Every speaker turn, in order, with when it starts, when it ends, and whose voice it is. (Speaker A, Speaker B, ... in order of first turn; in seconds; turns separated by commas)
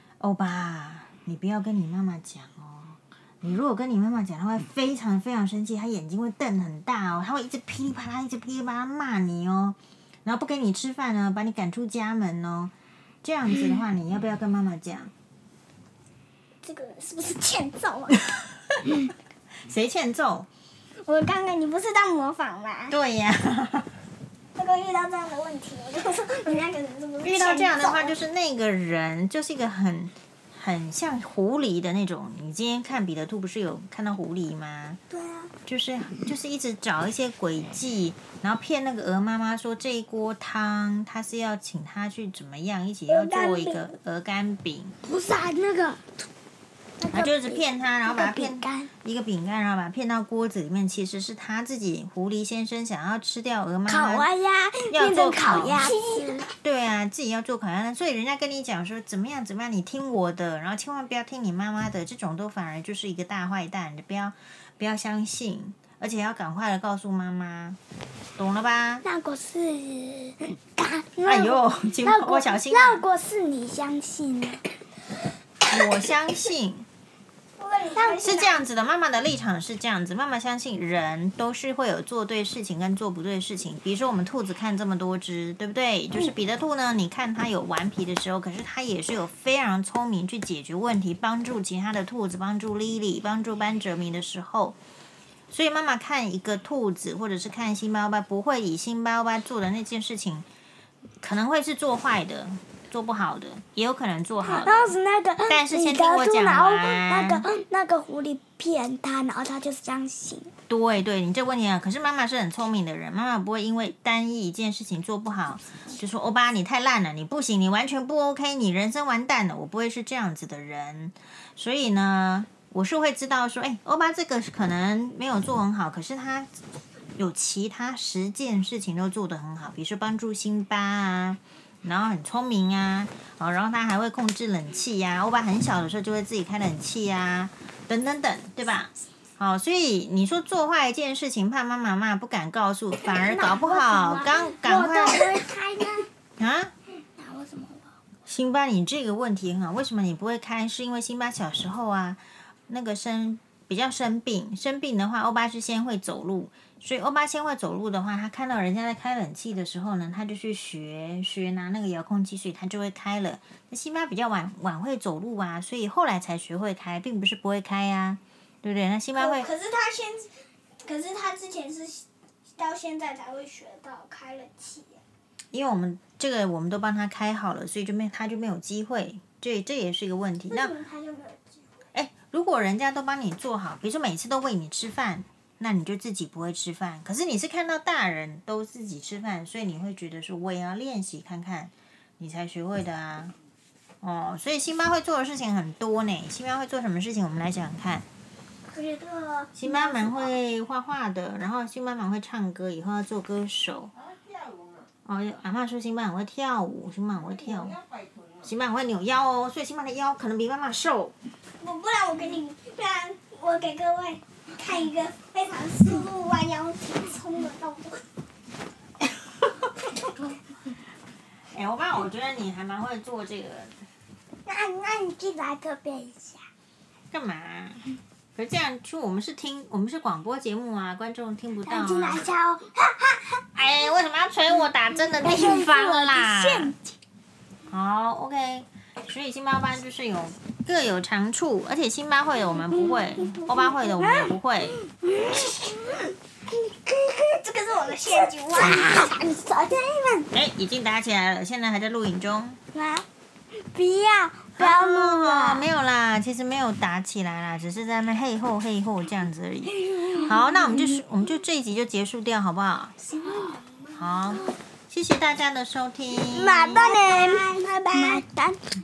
Speaker A: 0.2-15.1, Speaker B: 16.6-18.3, Speaker A: 18.7-19.0, Speaker A: 19.6-20.5, Speaker B: 21.0-23.0, Speaker A: 22.9-23.9, Speaker B: 24.5-28.2, Speaker A: 27.2-35.0, Speaker B: 35.1-35.5, Speaker A: 35.6-45.0, Speaker B: 43.1-43.8, Speaker C: 45.0-46.0, Speaker C: 47.0-48.9, Speaker A: 47.1-54.3, Speaker C: 53.9-56.5, Speaker A: 54.9-55.9, Speaker B: 55.8-56.5, Speaker A: 56.6-67.8, Speaker A: 68.4-69.0, Speaker C: 69.0-74.6, Speaker A: 71.2-73.0, Speaker A: 75.7-76.9, Speaker B: 77.6-78.6, Speaker C: 77.9-78.3, Speaker A: 78.2-94.8, Speaker A: 95.5-100.5, Speaker A: 101.2-104.9, Speaker C: 104.4-110.5, Speaker A: 105.5-107.4, Speaker A: 110.7-126.5, Speaker A: 127.2-145.4, Speaker C: 143.0-146.1, Speaker A: 146.4-146.7, Speaker C: 147.1-147.9, Speaker A: 148.2-169.5, Speaker B: 169.1-170.3, Speaker B: 170.8-172.0, Speaker B: 172.6-175.0, Speaker A: 175.5-180.8, Speaker B: 180.5-181.7, Speaker A: 181.9-193.3, Speaker A: 194.0-198.1, Speaker B: 198.7-200.3, Speaker A: 199.5-203.9, Speaker A: 205.0-207.8, Speaker A: 208.4-211.1, Speaker B: 211.6-218.0, Speaker A: 221.5-223.7, Speaker C: 224.4-226.4, Speaker A: 227.1-227.8, Speaker A: 228.3-232.3, Speaker C: 231.6-233.4, Speaker A: 233.5-236.7, Speaker C: 235.1-236.8, Speaker A: 237.7-244.8, Speaker C: 243.2-247.2, Speaker B: 247.2-248.9, Speaker C: 247.9-250.3, Speaker A: 250.3-252.6, Speaker C: 252.7-253.0, Speaker C: 253.6-255.7, Speaker A: 254.6-262.9, Speaker C: 259.6-261.0, Speaker C: 263.1-263.6, Speaker A: 263.9-266.9, Speaker C: 266.3-268.6, Speaker B: 266.5-268.2